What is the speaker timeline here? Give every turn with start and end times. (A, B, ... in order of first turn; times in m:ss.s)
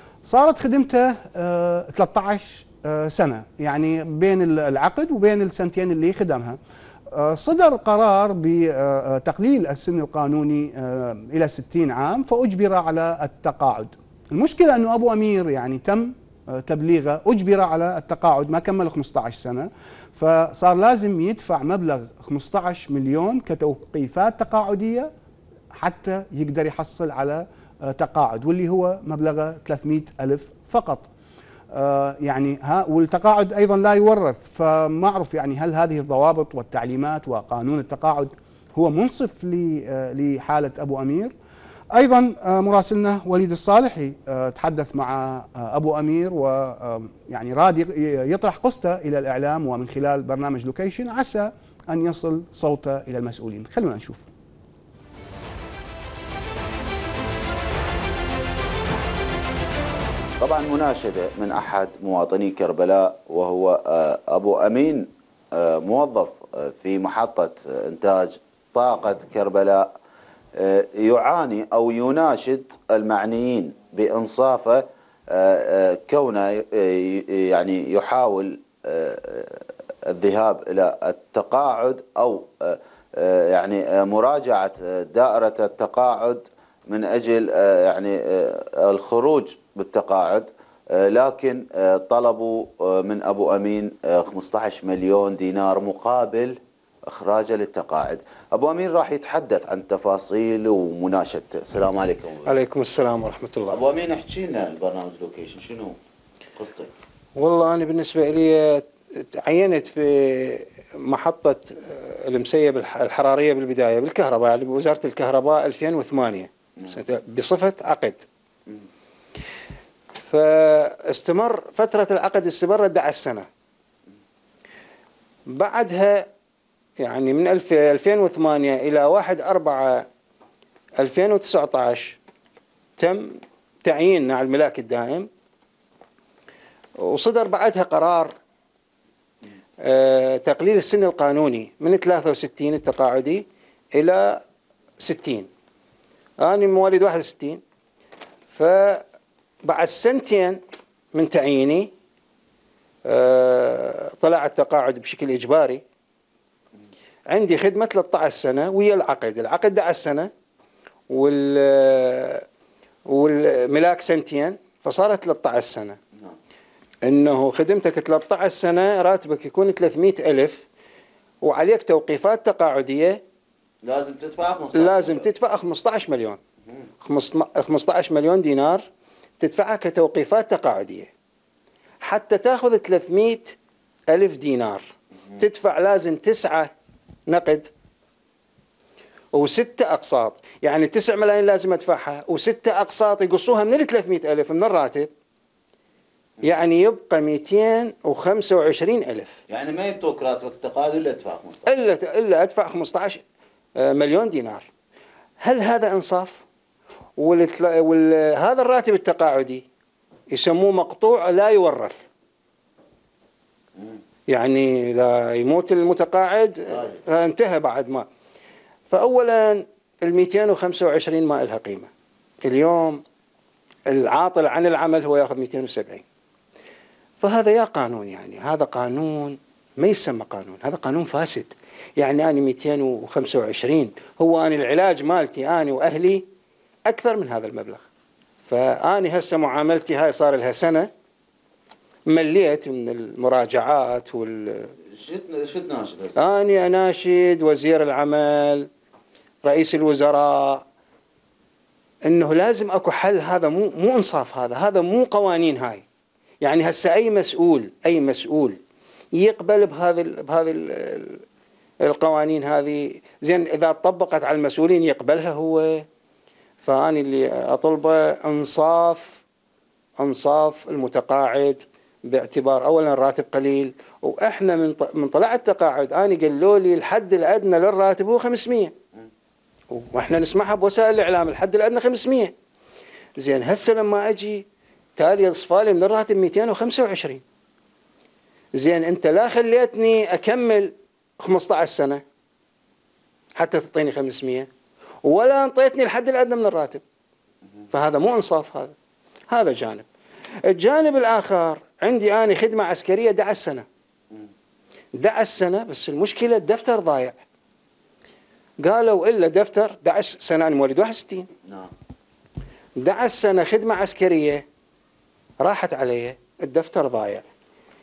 0:00.2-0:06.6 A
0:07.1-0:25.1 A
0:25.7-0:31.1 A
0:31.7-0:41.3 A
0:41.9-0:54.3 A
1:00.4-1:09.9 B
1:10.6-1:42.5 B
1:42.4-1:43.8 C
1:43.7-1:46.0 B
1:46.6-1:46.9 B
1:47.4-1:58.2 C
2:00.2-2:03.5 C
2:05.5-2:06.2 C
2:07.0-2:10.1 C
2:11.0-2:12.2 C
2:13.0-2:15.3 C
2:17.0-2:18.3 C
2:19.8-2:24.4 C
2:25.0-2:25.5 C
2:26.4-2:27.6 C
2:28.5-2:29.0 C
2:29.6-2:30.6 C
2:31.1-2:31.9 C
2:33.0-2:35.8 C
2:37.3-2:40.3 C
2:41.1-2:42.4 C
2:43.1-2:46.0 C
2:47.0-2:50.6 C
2:51.4-2:53.2 C
2:53.8-2:55.3 B
2:54.7-2:56.4 C
2:57.0-2:58.9 C
2:59.4-3:01.1 C
3:02.0-3:03.6 C
3:04.1-3:06.7 C
3:07.3-3:07.7 C
3:09.3-3:15.1 C
3:16.4-3:19.4 C
3:19.5-3:21.7 B
3:21.7-3:23.2 C
3:23.8-3:24.7 C
3:25.4-3:26.4 C
3:27.2-3:29.6 C
3:30.3-3:32.1 C
3:34.3-3:38.0 C
3:38.9-3:41.9 C
3:42.5-3:43.0 C
3:43.9-3:46.0 C
3:47.2-3:56.2 C
3:56.9-3:57.8 C
3:58.4-4:00.9 C
4:02.1-4:04.7 C
4:04.9-4:06.2 B
4:06.2-4:08.7 C
4:09.4-4:10.6 C
4:12.0-4:15.8 C
4:16.4-4:18.6 C
4:19.2-4:21.2 C
4:21.8-4:25.8 C
4:26.6-4:29.2 C
4:30.0-4:38.7 C
4:39.7-4:42.3 C
4:43.2-4:44.4 C
4:45.0-4:47.2 C
4:48.6-4:52.0 C
4:53.4-4:54.5 C
4:55.0-4:56.8 C
4:57.7-4:58.7 C
4:59.3-4:59.8 C
5:00.5-5:03.6 C
5:05.0-5:07.2 C
5:08.6-5:11.3 C
5:11.4-5:11.7 B
5:12.8-5:14.4 C
5:15.4-5:17.3 C